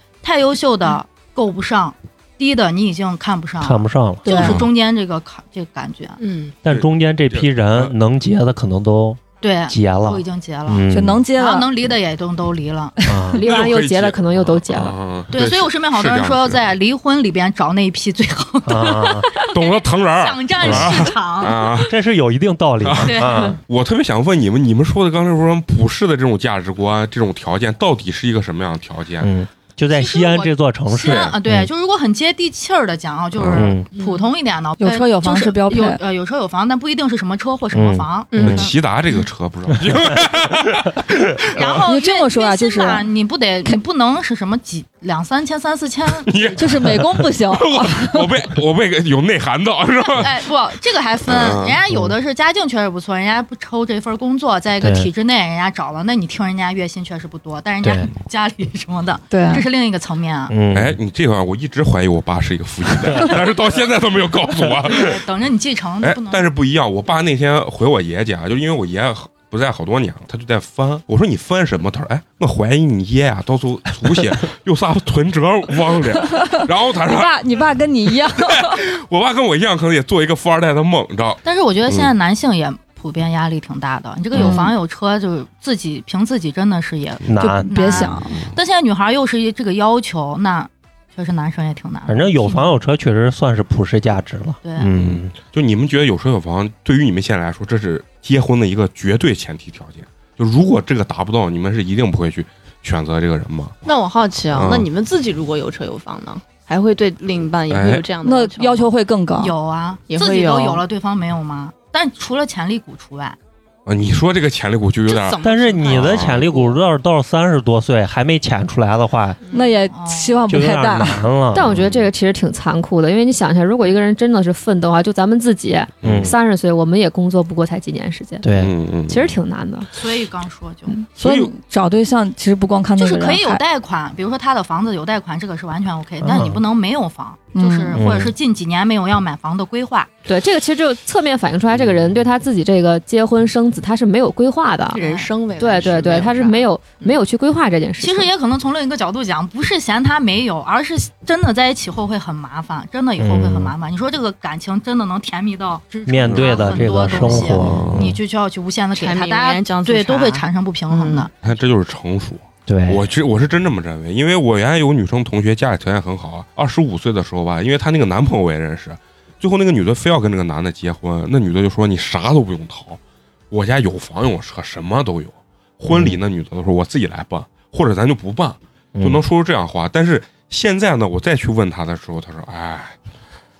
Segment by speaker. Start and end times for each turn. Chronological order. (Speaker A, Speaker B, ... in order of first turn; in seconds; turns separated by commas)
Speaker A: 0.2-6.2, Speaker B: 3.6-4.7, Speaker C: 4.2-4.7, Speaker D: 6.2-6.5, Speaker B: 6.6-11.2, Speaker E: 6.7-7.9, Speaker A: 9.4-13.0, Speaker C: 10.9-11.7, Speaker B: 13.1-13.4, Speaker F: 13.3-14.9, Speaker E: 13.4-16.7, Speaker A: 15.3-21.7, Speaker B: 18.7-19.3, Speaker E: 19.5-22.0, Speaker B: 20.6-21.1, Speaker B: 21.9-23.6, Speaker E: 22.8-29.3, Speaker A: 23.0-23.6, Speaker B: 29.2-31.7, Speaker A: 29.9-38.5, Speaker E: 31.1-31.4, Speaker E: 33.4-33.8, Speaker B: 33.5-33.9, Speaker D: 33.9-34.3, Speaker C: 34.8-36.0, Speaker B: 37.7-38.7, Speaker D: 38.3-38.7, Speaker E: 38.4-41.8, Speaker A: 41.5-46.8, Speaker C: 41.9-43.1, Speaker E: 46.2-50.4, Speaker C: 46.6-48.3, Speaker A: 50.1-60.5, Speaker E: 51.3-51.8, Speaker B: 54.8-55.1, Speaker B: 57.8-58.1, Speaker C: 59.3-59.7, Speaker B: 60.5-61.0, Speaker E: 60.7-65.2, Speaker A: 64.8-66.5, Speaker E: 66.0-82.1, Speaker C: 77.0-78.8, Speaker A: 81.5-92.8, Speaker C: 84.3-84.8, Speaker B: 87.3-88.1, Speaker C: 87.4-88.4, Speaker E: 88.2-88.5, Speaker B: 92.1-95.3, Speaker A: 94.6-94.9, Speaker E: 95.0-103.8, Speaker D: 103.8-108.9, Speaker E: 104.5-104.9, Speaker E: 107.7-108.1, Speaker C: 108.2-109.5, Speaker A: 109.4-113.4, Speaker D: 110.1-110.8, Speaker E: 113.9-116.5, Speaker D: 115.1-116.8, Speaker B: 115.4-119.4, Speaker D: 119.4-119.7, Speaker C: 119.5-121.2, Speaker A: 119.9-120.5, Speaker B: 120.5-121.7, Speaker F: 121.5-128.4, Speaker E: 121.7-122.0, Speaker E: 126.0-126.3, Speaker B: 126.0-126.3, Speaker B: 128.4-128.7, Speaker E: 128.6-129.4, Speaker F: 129.1-129.9, Speaker A: 129.9-130.9, Speaker C: 131.1-133.6, Speaker E: 131.2-131.5, Speaker A: 133.0-140.1, Speaker B: 136.2-136.6, Speaker C: 137.5-138.1, Speaker B: 137.9-138.3, Speaker F: 140.3-145.0, Speaker E: 141.7-142.1, Speaker D: 144.9-147.2, Speaker A: 144.9-145.3, Speaker F: 145.6-148.3, Speaker A: 148.0-161.3, Speaker B: 153.2-153.7, Speaker B: 156.1-158.2, Speaker E: 156.2-158.2, Speaker D: 158.9-161.3, Speaker E: 161.4-173.0, Speaker B: 162.7-163.0, Speaker E: 173.5-183.0, Speaker B: 175.9-176.2, Speaker B: 179.0-179.2